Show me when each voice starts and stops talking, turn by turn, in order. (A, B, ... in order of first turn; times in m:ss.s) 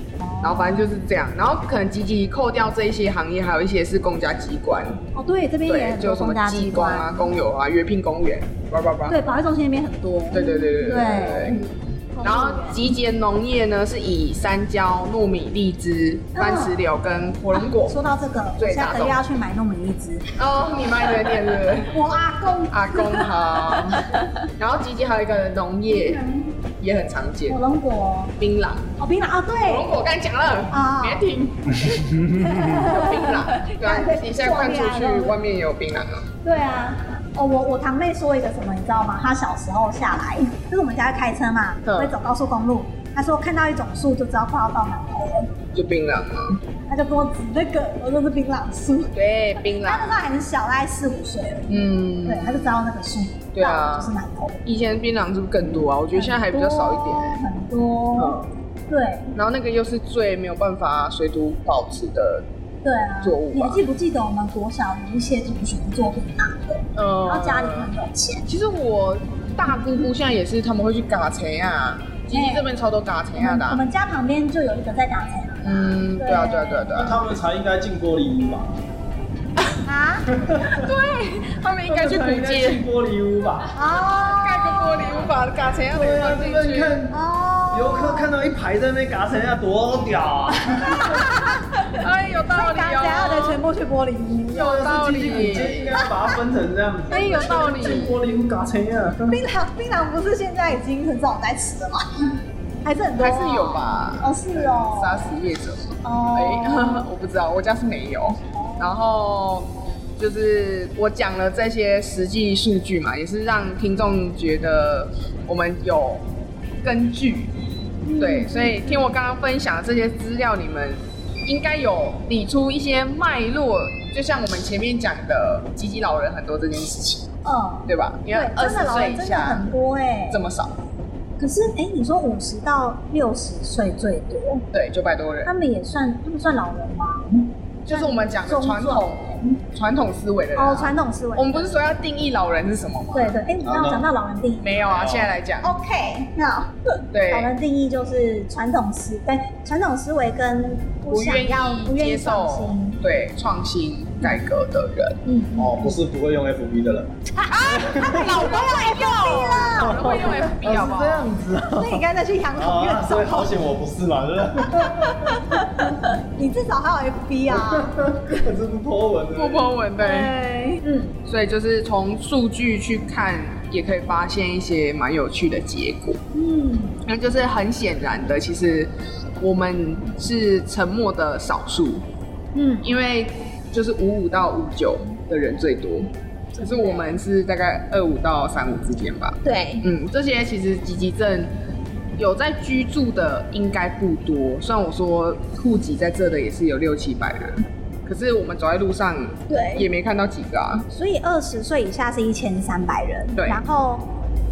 0:00.2-0:01.1 A
0:00.4-0:05.0 B
0:05.1-0:07.3 A
0:05.7-0:09.2 B
0:09.1-0:12.8 A
0:10.3-0:11.6 B
0:12.2-0:18.0 B
0:16.3-0:16.7 A
0:17.5-0:20.4 A
0:18.6-0:19.2 B
0:20.4-0:22.0 B
0:21.8-0:24.3 A
0:22.7-0:24.0 B
0:24.6-0:26.2 B
0:25.9-0:26.5 A
0:26.8-0:27.6 B
0:27.5-0:28.4 A
0:28.4-0:29.0 B
0:29.0-0:30.1 A
0:29.6-0:32.0 B
0:30.7-0:31.2 A
0:31.8-0:32.7 C
0:32.1-0:35.4 A
0:32.6-0:36.2 B
0:36.4-0:45.5 A
0:41.9-0:42.1 B
0:45.7-0:46.6 B
0:46.9-0:54.7 A
0:49.1-0:50.3 B
0:51.7-0:52.8 B
0:53.5-0:54.1 B
0:54.6-0:57.4 B
0:56.1-0:59.3 A
0:58.2-0:58.5 B
0:59.3-1:02.5 B
1:02.8-1:08.5 A
1:03.2-1:03.8 B
1:07.0-1:07.9 B
1:08.5-1:13.8 B
1:12.3-1:12.7 A
1:13.4-1:17.0 A
1:15.6-1:17.2 B
1:17.0-1:18.8 C
1:19.8-1:20.3 A
1:20.3-1:20.9 C
1:20.6-1:22.8 B
1:21.8-1:23.7 C
1:23.7-1:25.2 A
1:24.0-1:26.9 B
1:25.9-1:27.2 C
1:27.1-1:28.3 A
1:27.7-1:31.3 C
1:30.7-1:36.4 A
1:31.9-1:33.6 B
1:34.5-1:35.9 B
1:34.6-1:39.4 C
1:37.1-1:38.2 B
1:39.3-1:45.3 A
1:43.2-1:56.3 B
1:46.0-1:47.1 A
1:48.5-1:49.0 A
1:56.8-1:57.5 B
1:58.0-1:59.1 A
1:58.2-2:07.3 B
2:07.4-2:10.4 A
2:07.9-2:09.7 B
2:10.3-2:10.7 B
2:11.4-2:14.6 A
2:14.7-2:15.5 B
2:15.4-2:19.5 A
2:17.9-2:23.4 B
2:20.6-2:21.9 A
2:23.1-2:25.1 A
2:23.6-2:24.0 C
2:24.6-2:25.7 B
2:25.0-2:25.3 C
2:25.6-2:33.0 A
2:27.1-2:27.5 B
2:31.1-2:35.2 B
2:35.2-2:36.0 A
2:35.6-2:38.4 C
2:37.4-2:40.6 A
2:37.5-2:41.3 B
2:39.7-2:42.0 C
2:41.7-2:43.6 A
2:42.6-2:45.6 C
2:44.9-2:48.4 A
2:47.5-2:49.7 C
2:49.3-2:50.3 B
2:50.0-2:51.2 A
2:51.3-2:56.2 B
2:56.3-2:57.0 A
2:57.0-3:02.0 B
3:02.5-3:02.9 A
3:02.8-3:11.6 B
3:06.5-3:07.1 A
3:09.4-3:09.9 A
3:12.2-3:20.9 B
3:19.5-3:19.9 A
3:20.9-3:24.1 A
3:23.4-3:23.6 B